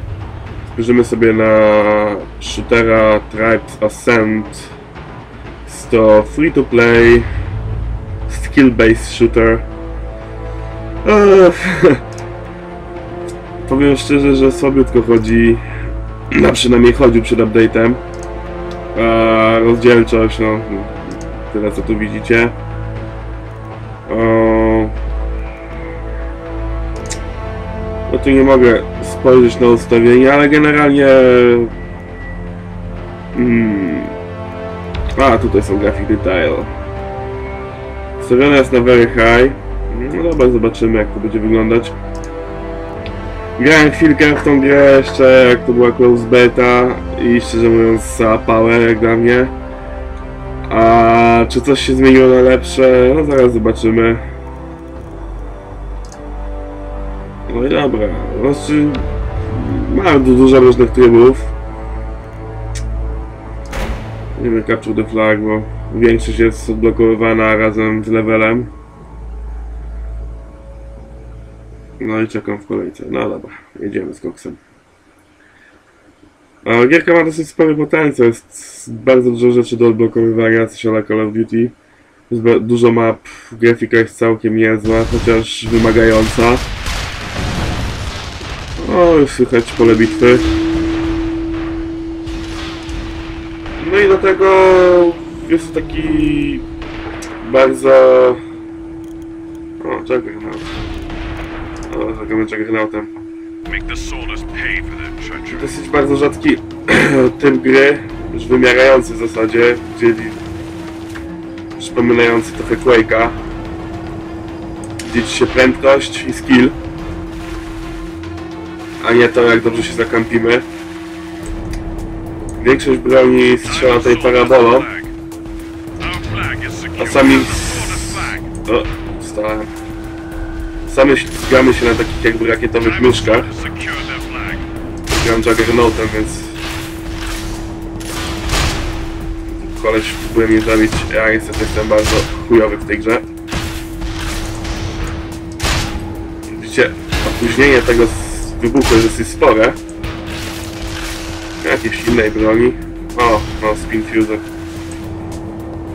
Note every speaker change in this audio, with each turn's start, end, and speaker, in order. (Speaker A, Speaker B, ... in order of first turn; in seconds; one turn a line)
Speaker A: 0.7-4.7
Speaker A: 5.7-7.3
Speaker A: 8.3-9.7
Speaker A: 11.0-12.0
Speaker A: 13.6-15.6
Speaker A: 16.3-18.0
Speaker A: 18.9-22.6
Speaker A: 24.1-24.9
Speaker A: 28.1-31.7
Speaker A: 33.3-34.1
Speaker A: 35.1-36.7
Speaker A: 38.2-41.9
Speaker A: 43.6-49.5
Speaker A: 50.7-54.2
Speaker A: 57.5-61.5
Speaker A: 64.3-68.7
Speaker A: 72.0-74.6
Speaker A: 76.6-81.7
Speaker A: 82.3-86.6
Speaker A: 88.8-90.5
Speaker A: 93.8-96.7
Speaker A: 97.4-98.4
Speaker A: 99.8-100.7
Speaker A: 101.9-103.1
Speaker B: 103.7-105.7
Speaker A: 105.5-110.4
Speaker A: 111.8-113.4
Speaker A: 115.0-116.7
Speaker A: 119.0-120.7
Speaker A: 122.6-124.9
Speaker B: 123.6-125.1
Speaker B: 126.0-128.4
Speaker A: 127.0-129.7
Speaker A: 130.8-133.5
Speaker B: 132.8-134.7
Speaker A: 135.1-136.6
Speaker A: 139.5-143.2
Speaker A: 146.5-149.8
Speaker A: 151.6-154.4